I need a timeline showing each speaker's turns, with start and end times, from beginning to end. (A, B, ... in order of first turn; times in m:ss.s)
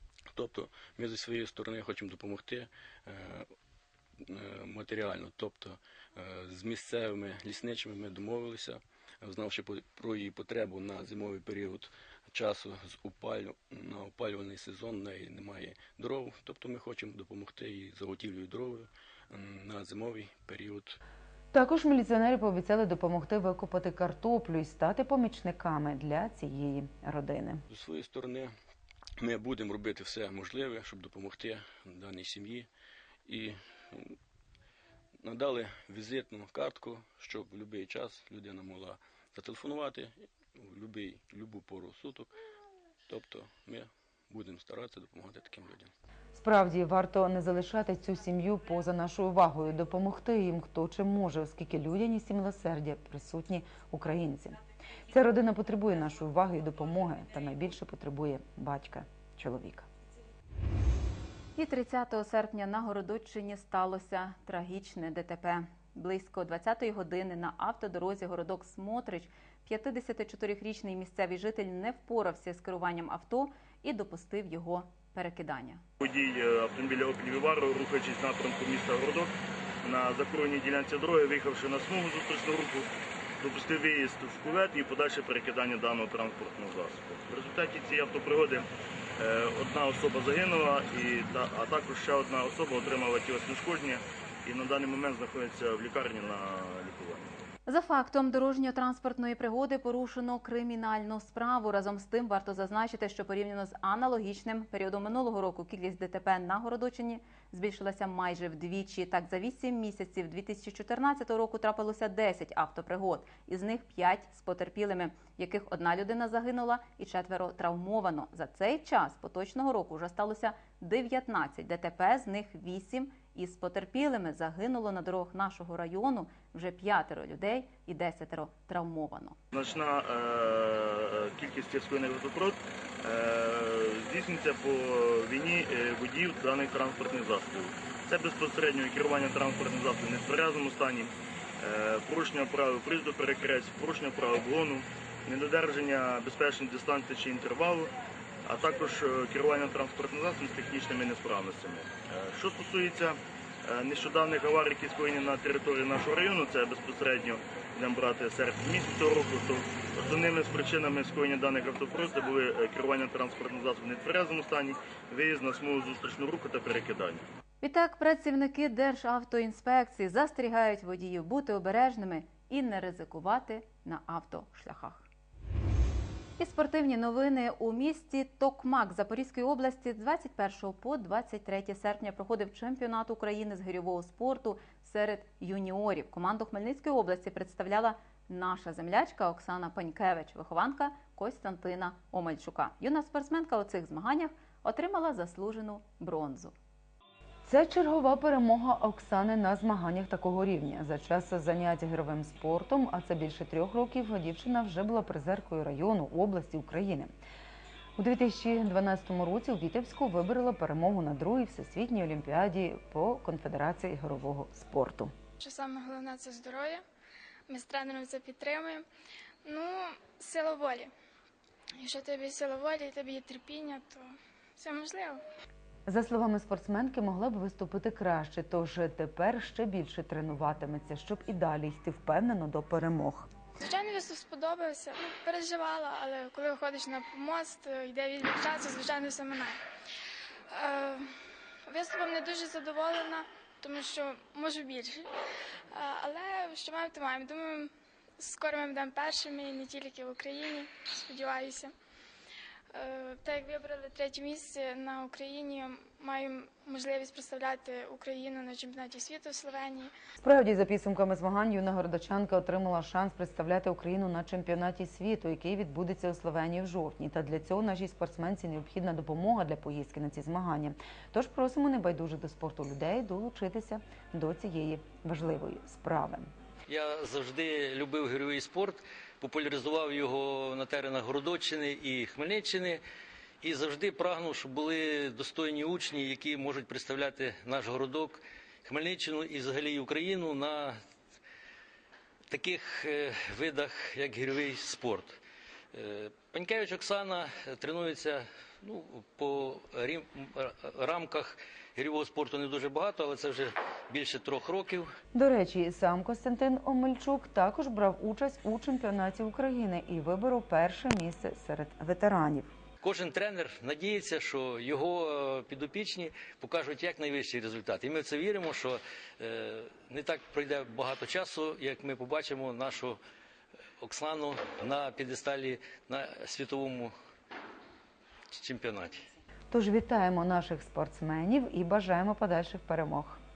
0:00.3-0:03.5 A
0:04.2-0:21.0 A
0:21.5-0:27.6 B
0:27.7-0:28.5 A
0:29.2-0:32.7 A
0:33.2-0:34.2 A
0:35.2-0:42.4 A
0:43.1-0:45.9 A
0:46.3-0:59.9 B
1:01.6-1:15.8 C
1:16.0-1:37.4 D
1:37.6-2:09.4 C
2:09.5-2:27.9 D
2:28.4-2:47.2 D
2:47.6-2:55.1 C
2:56.4-3:16.5 C
3:17.4-3:27.1 B
3:28.0-3:35.1 B
3:35.4-3:36.8 E
3:37.5-3:38.8 E
3:39.4-3:40.9 E
3:41.8-3:45.2 E
3:45.8-3:53.3 B
3:53.6-3:59.6 E
4:00.5-4:01.1 E
4:01.7-4:05.1 E
4:05.7-4:11.7 E
4:12.7-4:19.9 E
4:20.2-4:36.3 B
4:36.7-4:42.8 F
4:43.4-4:50.8 F
4:52.3-4:55.2 F
4:55.7-5:04.9 F
5:05.1-5:12.5 B
5:12.8-5:23.0 F
5:23.8-5:26.9 F
5:28.3-5:29.1 F
5:29.5-5:33.2 B